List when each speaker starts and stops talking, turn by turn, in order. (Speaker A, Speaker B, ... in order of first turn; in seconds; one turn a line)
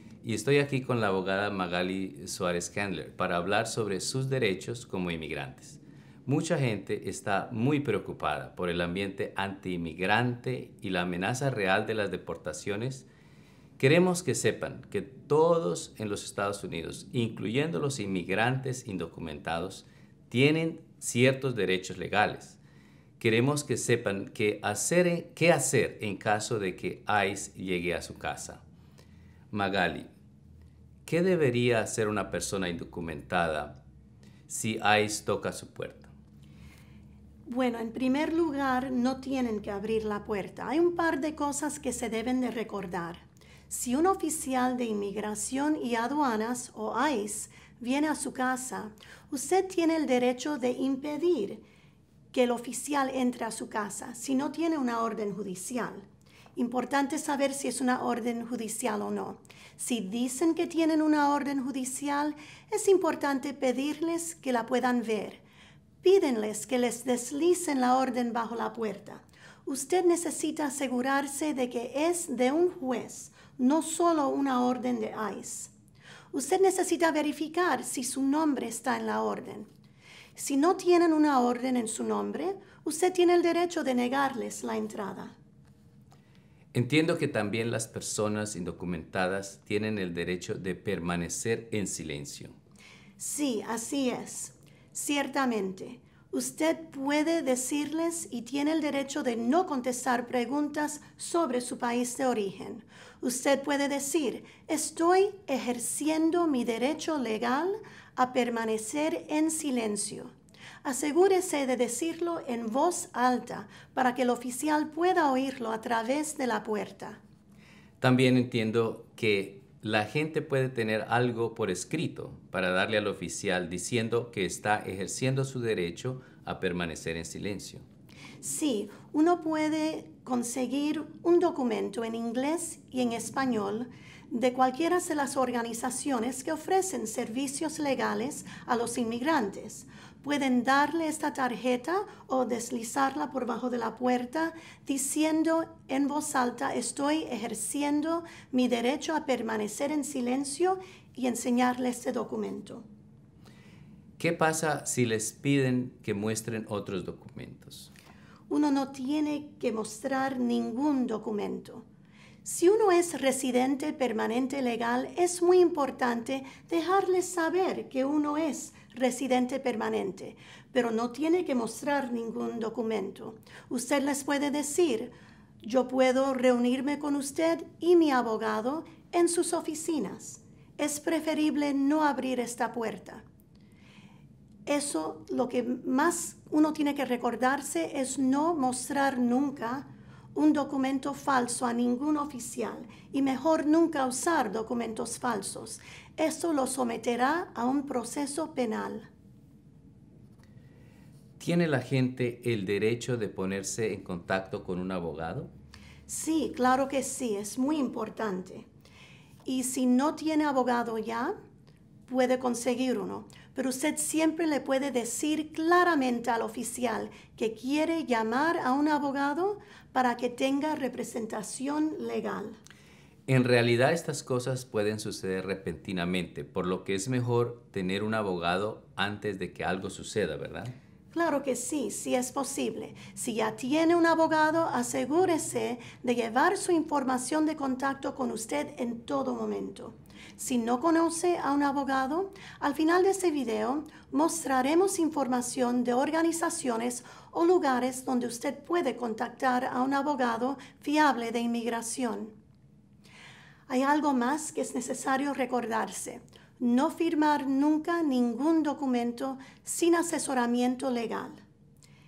Speaker A: 0.2-13.1
Speaker A: 13.8-22.6
Speaker A: 23.2-28.6
Speaker A: 29.5-30.1
Speaker A: 31.0-33.7
Speaker A: 34.5-36.1
Speaker B: 37.5-51.6
Speaker B: 52.3-65.4
Speaker B: 66.0-75.7
Speaker B: 76.3-79.7
Speaker B: 80.3-85.3
Speaker A: 86.7-92.5
Speaker B: 93.2-110.3
Speaker B: 110.8-117.2
Speaker A: 118.0-127.8
Speaker B: 128.4-152.8
Speaker A: 154.2-157.9
Speaker B: 158.5-161.8
Speaker B: 162.4-183.2
Speaker B: 184.7-199.1
Speaker A: 201.4-205.5
Speaker B: 206.1-208.7
Speaker B: 209.4-211.3
Speaker B: 212.1-222.6
Speaker A: 223.3-230.7
Speaker B: 231.1-252.3
Speaker B: 253.7-261.4